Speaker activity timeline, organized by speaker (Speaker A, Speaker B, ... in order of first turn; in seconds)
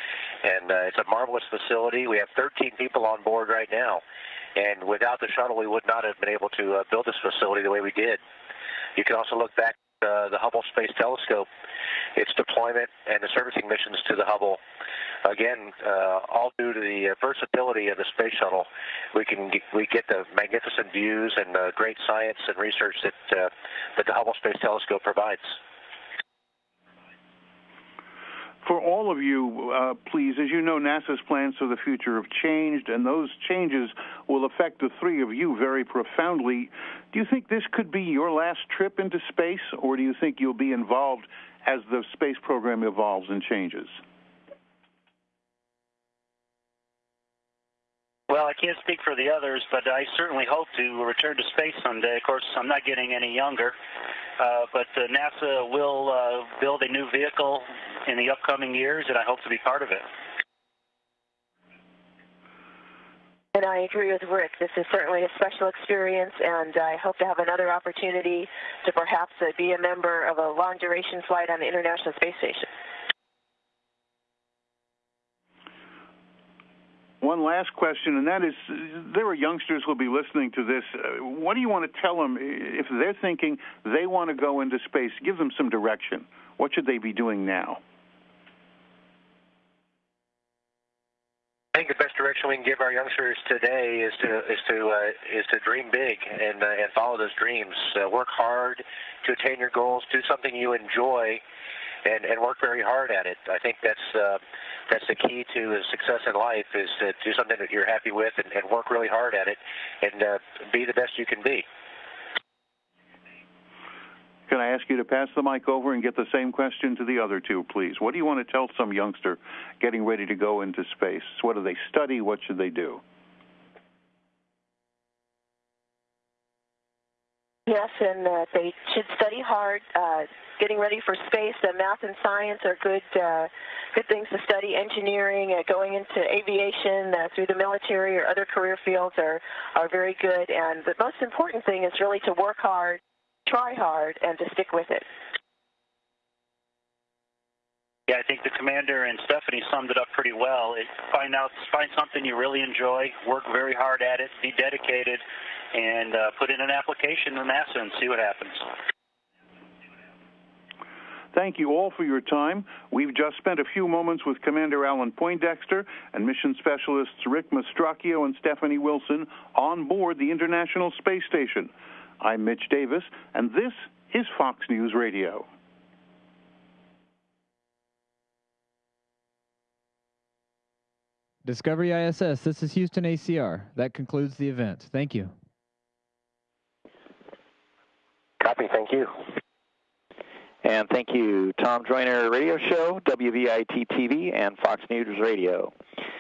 Speaker A: 0.4-4.0, 4.6-8.2, 9.0-11.5, 12.2-14.6, 15.2-25.6, 91.8-101.4, 102.0-111.7, 188.4-189.1
Speaker B: 28.6-43.9, 77.2-87.8, 114.5-123.0, 161.3-175.5
Speaker C: 48.3-53.7, 54.4-60.0, 148.1-155.2, 155.7-158.6
Speaker D: 63.5-72.7, 127.7-145.1
Speaker E: 181.4-185.3
Speaker F: 190.6-195.7